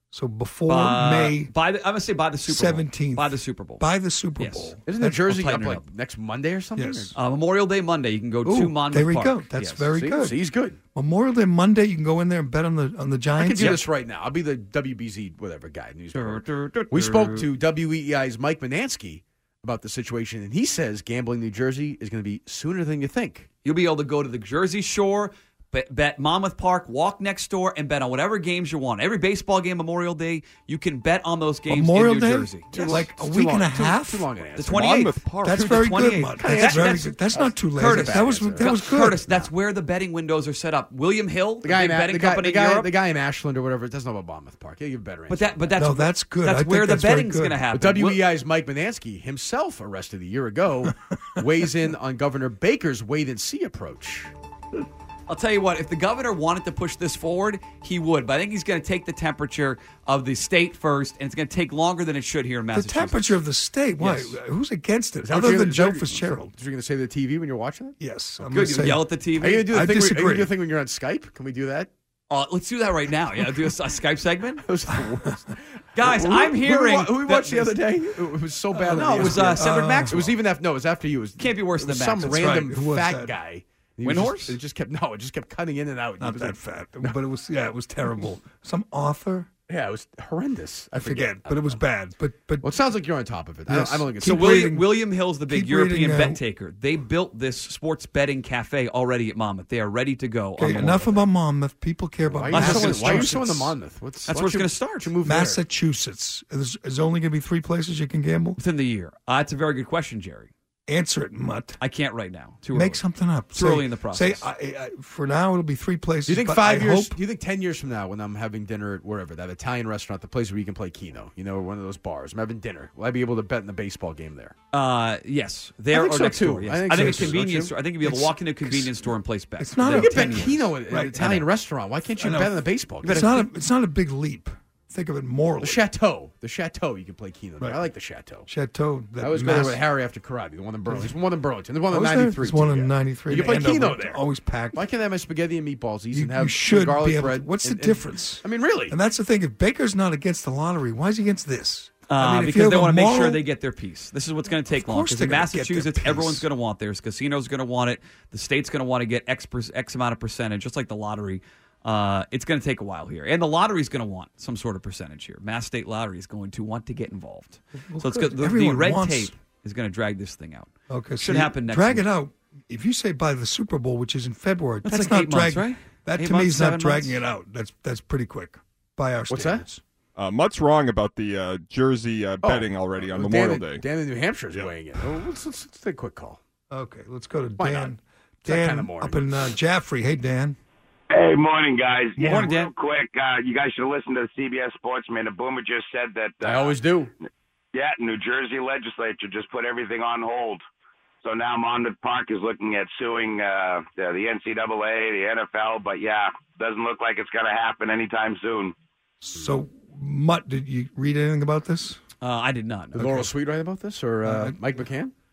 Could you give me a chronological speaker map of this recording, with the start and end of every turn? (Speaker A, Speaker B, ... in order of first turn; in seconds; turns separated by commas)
Speaker A: 0.1-1.5, Speaker B: 0.7-3.8, Speaker A: 2.5-5.2, Speaker B: 4.4-5.8, Speaker C: 4.8-7.1, Speaker A: 6.8-7.1, Speaker B: 7.1-9.9, Speaker A: 8.4-10.3, Speaker C: 9.9-10.8, Speaker A: 10.9-13.8, Speaker C: 13.4-23.5, Speaker B: 16.1-17.5, Speaker B: 23.6-33.0, Speaker A: 31.7-34.3, Speaker C: 32.7-38.7, Speaker B: 34.5-42.9, Speaker A: 35.4-39.2, Speaker C: 41.6-45.8, Speaker B: 45.3-48.2, Speaker A: 45.8-47.6, Speaker C: 47.7-54.3, Speaker B: 55.3-63.4, Speaker A: 62.7-66.5, Speaker B: 64.0-64.3, Speaker C: 65.2-68.0, Speaker A: 68.0-69.1, Speaker B: 68.5-69.7, Speaker C: 69.4-71.9, Speaker A: 69.6-70.5, Speaker B: 72.3-74.6, Speaker C: 74.6-87.2, Speaker B: 75.9-77.7, Speaker A: 78.7-80.3, Speaker B: 78.9-80.3, Speaker B: 81.4-82.5, Speaker A: 82.2-83.3, Speaker B: 84.0-84.6, Speaker A: 86.2-89.5, Speaker C: 89.7-91.8, Speaker A: 91.0-92.7, Speaker C: 92.6-94.7, Speaker A: 93.7-96.4, Speaker B: 94.2-101.2, Speaker A: 100.6-103.8, Speaker C: 102.3-105.6, Speaker B: 102.5-103.4, Speaker B: 104.2-105.1, Speaker A: 105.2-108.6, Speaker B: 108.6-110.5, Speaker A: 110.9-111.8, Speaker B: 111.8-113.0, Speaker A: 112.7-117.2, Speaker B: 113.5-114.5, Speaker C: 116.2-124.5, Speaker B: 124.7-131.3, Speaker C: 125.9-127.7, Speaker A: 126.9-127.4, Speaker A: 128.0-128.9, Speaker A: 129.6-131.4, Speaker C: 129.8-133.4, Speaker A: 132.2-135.8, Speaker B: 133.0-133.4, Speaker C: 135.6-138.5, Speaker A: 138.5-139.8, Speaker C: 139.2-144.2, Speaker A: 140.9-141.1, Speaker A: 141.9-144.8, Speaker C: 144.7-148.9, Speaker A: 146.1-153.4, Speaker B: 152.1-172.1, Speaker A: 154.6-156.4, Speaker A: 167.8-169.3, Speaker A: 170.9-179.8, Speaker B: 174.8-177.2, Speaker C: 179.3-179.6, Speaker D: 180.2-183.8, Speaker C: 182.4-186.4, Speaker A: 186.7-190.6, Speaker C: 187.6-187.9, Speaker C: 188.4-189.5, Speaker E: 191.1-196.8, Speaker A: 192.2-192.5, Speaker B: 192.2-192.7, Speaker C: 196.4-197.1, Speaker E: 197.7-200.6, Speaker E: 201.2-208.7, Speaker A: 209.2-212.0, Speaker B: 212.2-213.2, Speaker C: 212.9-215.1, Speaker A: 214.2-214.6